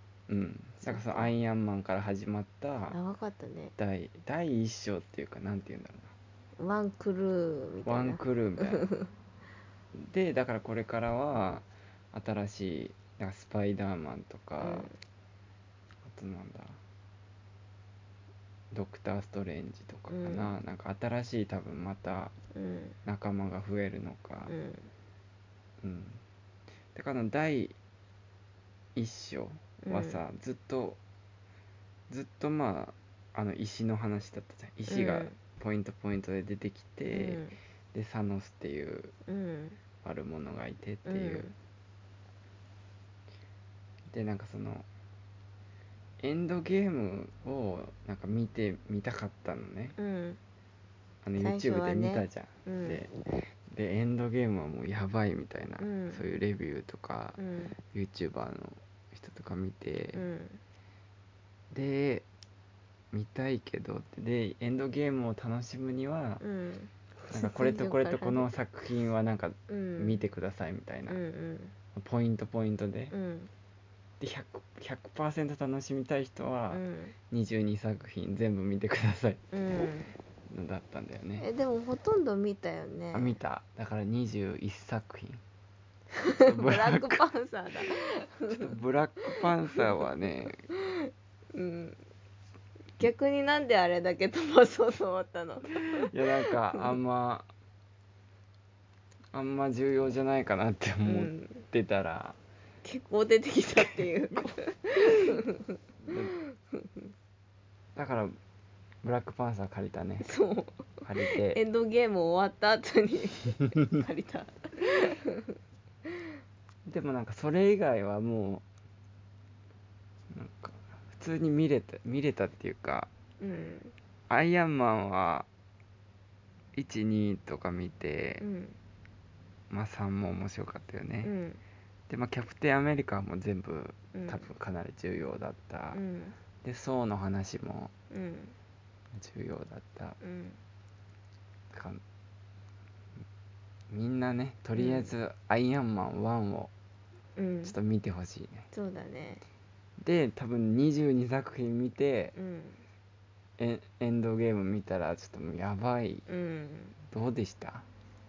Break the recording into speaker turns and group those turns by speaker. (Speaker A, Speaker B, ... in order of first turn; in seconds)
Speaker A: 0.3-3.0, 3.8-6.1, 7.9-8.9, 9.9-14.9, 16.1-16.8, 18.7-22.3, 23.1-24.5, 25.8-26.2, 26.9-27.8, 29.0-31.0, 32.1-39.1, 40.0-41.5, 44.1-44.9, 46.2-50.0, 51.2-60.3, 61.7-62.3, 63.1-66.4, 67.3-71.2, 72.0-73.1, 74.2-79.9, 80.5-81.5, 83.1-85.4, 86.3-87.3, 88.5-90.6, 95.7-97.5, 99.3-102.4, 104.0-105.4, 106.1-106.3, 108.0-108.3, 109.0-110.3, 111.0-111.6, 116.9-118.7, 120.3-123.1, 124.3-125.5, 126.8-128.4, 129.7-131.3, 132.1-136.0, 136.6-137.9, 139.2-140.2, 141.7-142.0, 143.9-146.7, 147.6-148.7, 150.0-152.3, 153.6-156.3, 157.1-157.9
Speaker B: 0.8-1.3, 2.9-3.8, 6.6-9.1, 14.6-14.9, 20.1-20.5, 22.5-23.0, 24.5-24.9, 29.8-30.2, 34.9-35.4, 37.1-37.6, 39.3-39.8, 41.1-41.5, 50.0-50.4, 51.4-53.0, 55.8-56.2, 57.4-57.8, 60.1-60.6, 66.4-68.5, 69.7-70.3, 71.1-71.8, 73.1-73.5, 76.7-77.2, 79.5-80.1, 81.4-83.4, 86.2-90.0, 90.7-92.0, 93.0-96.8, 101.1-101.7, 102.8-107.1, 110.2-116.3, 123.4-124.0, 128.4-128.8, 131.2-131.6, 134.1-134.5, 135.9-136.4, 138.1-138.6, 140.2-140.6, 144.8-145.1, 147.4-147.7, 148.7-149.4, 152.3-152.8, 156.3-157.0